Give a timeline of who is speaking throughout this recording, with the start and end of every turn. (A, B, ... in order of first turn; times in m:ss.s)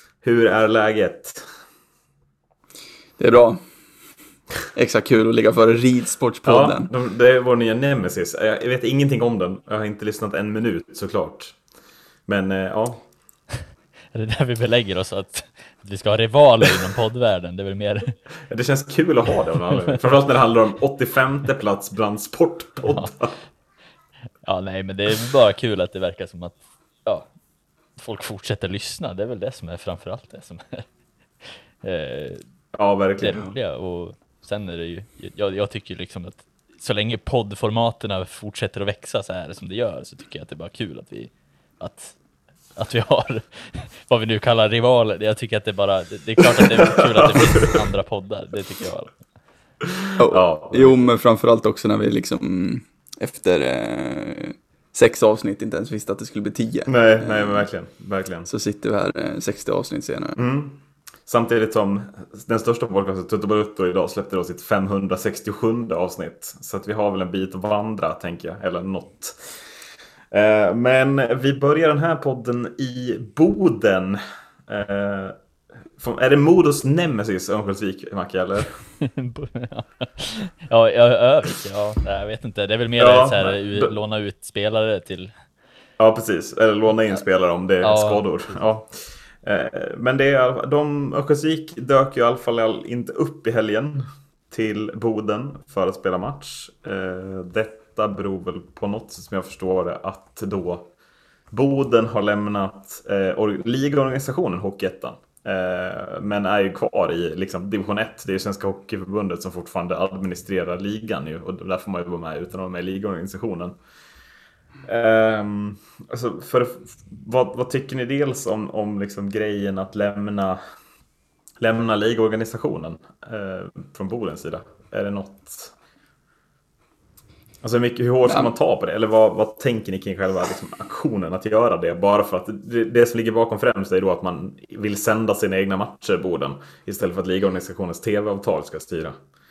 0:00.2-0:01.4 A
0:03.2-0:03.6 B
0:04.8-0:06.9 B
0:06.4-0:11.6 A
0:12.3-0:13.0 A
0:14.1-0:18.2 C
0:18.5-0:23.4 A
0:24.4-0:27.3 C
0:28.0-0:30.9 C
0:31.4-0:32.5 C
0:32.7-0:33.5 A
0:33.2-0:42.2 C
0:42.8-0:49.2 C
0:46.9-0:47.8 A
0:50.0-0:50.9 A
0:50.2-0:57.7 B
0:56.9-0:58.5 A
0:58.5-1:00.4 B
1:00.4-1:09.6 A
1:10.3-1:15.4 A
1:16.0-1:18.8 A
1:19.0-1:25.3 C
1:23.0-1:23.9 A
1:26.0-1:40.9 A
1:27.8-1:28.2 C
1:41.5-1:53.8 A
1:54.8-2:00.6 A
2:01.6-2:05.7 A
2:07.6-2:19.2 A
2:08.2-2:08.5 B